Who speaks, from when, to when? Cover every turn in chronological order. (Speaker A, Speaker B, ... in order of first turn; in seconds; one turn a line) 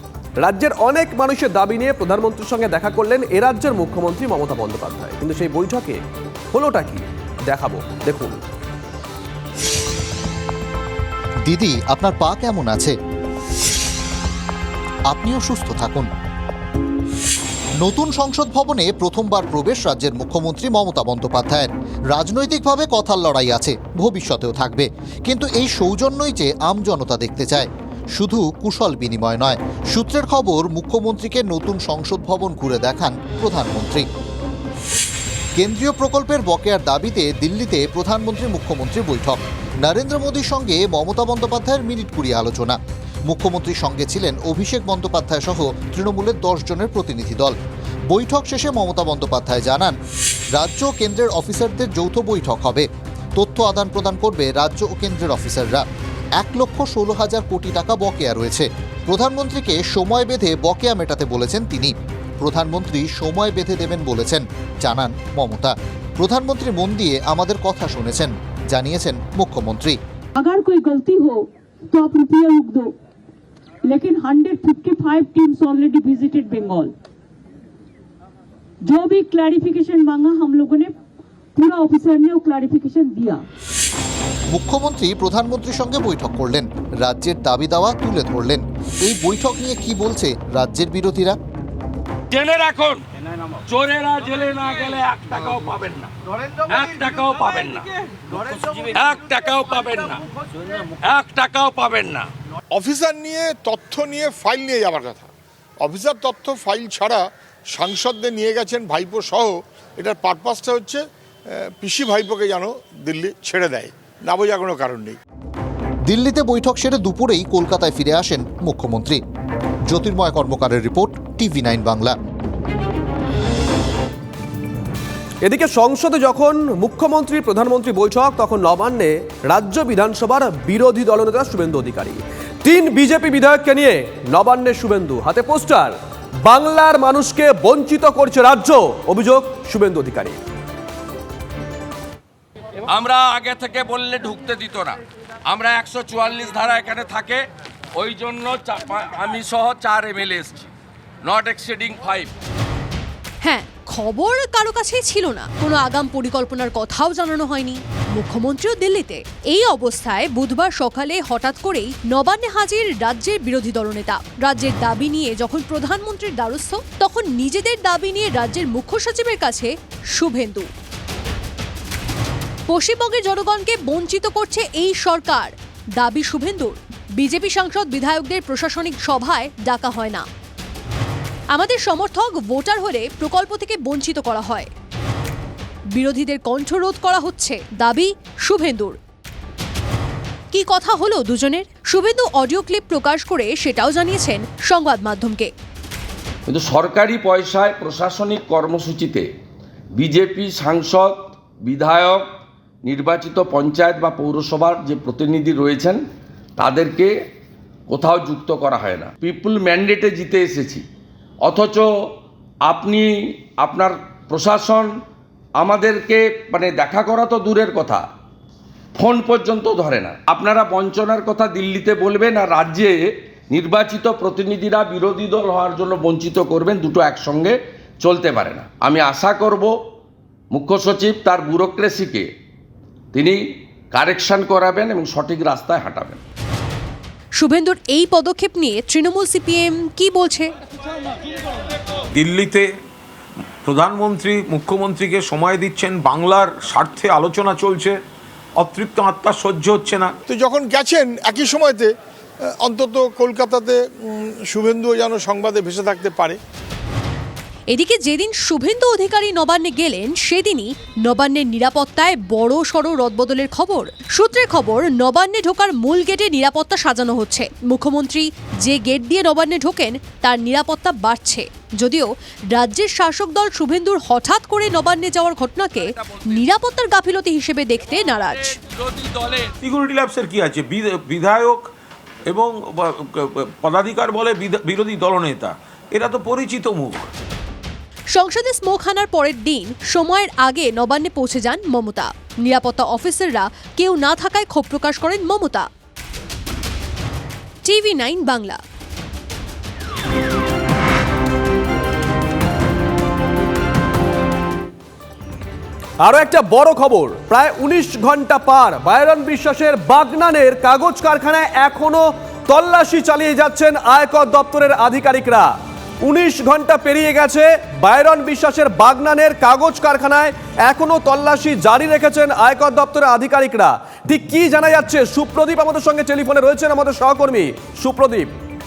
Speaker A: 0.4-6.0
Speaker A: 6.5-8.4
Speaker B: 11.5-12.9
Speaker B: 15.1-16.1
Speaker B: 17.8-34.1
Speaker B: 35.6-47.6
Speaker B: 48.1-49.9
Speaker B: 50.5-55.9
Speaker B: 56.4-70.0
Speaker C: 70.4-72.9
Speaker C: 73.8-76.9
Speaker C: 78.8-80.9
Speaker C: 81.6-83.5
Speaker B: 84.5-91.4
Speaker D: 92.3-93.0
Speaker D: 93.7-96.1
Speaker D: 96.7-97.9
Speaker D: 98.8-100.2
Speaker D: 101.0-102.3
Speaker E: 102.7-105.3
Speaker E: 105.8-115.2
Speaker B: 116.1-119.2
Speaker B: 119.9-122.2
Speaker A: 125.4-140.4
Speaker D: 142.9-147.4
Speaker D: 147.9-150.7
Speaker D: 151.2-152.3
Speaker F: 153.4-170.7
Speaker F: 172.7-180.2
Speaker F: 181.5-184.7
Speaker F: 186.0-189.0
Speaker F: 190.5-195.5
Speaker D: 196.5-199.3
Speaker D: 199.9-202.3
Speaker D: 202.8-206.0
Speaker D: 206.6-207.1
Speaker D: 207.9-210.8
Speaker D: 211.4-212.1
Speaker D: 212.7-214.9
Speaker D: 215.6-218.1
Speaker D: 218.9-229.8
Speaker D: 230.5-232.3
Speaker D: 233.1-236.2
Speaker F: 237.4-240.5
Speaker G: 242.1-242.7
Speaker G: 243.7-248.0
Speaker G: 248.6-250.1
Speaker E: 250.3-251.9
Speaker E: 252.6-256.4
Speaker F: 257.7-278.6
Speaker G: 279.6-281.7
Speaker G: 282.3-287.1
Speaker F: 288.2-295.7
Speaker F: 297.6-298.6
Speaker A: 306.0-328.3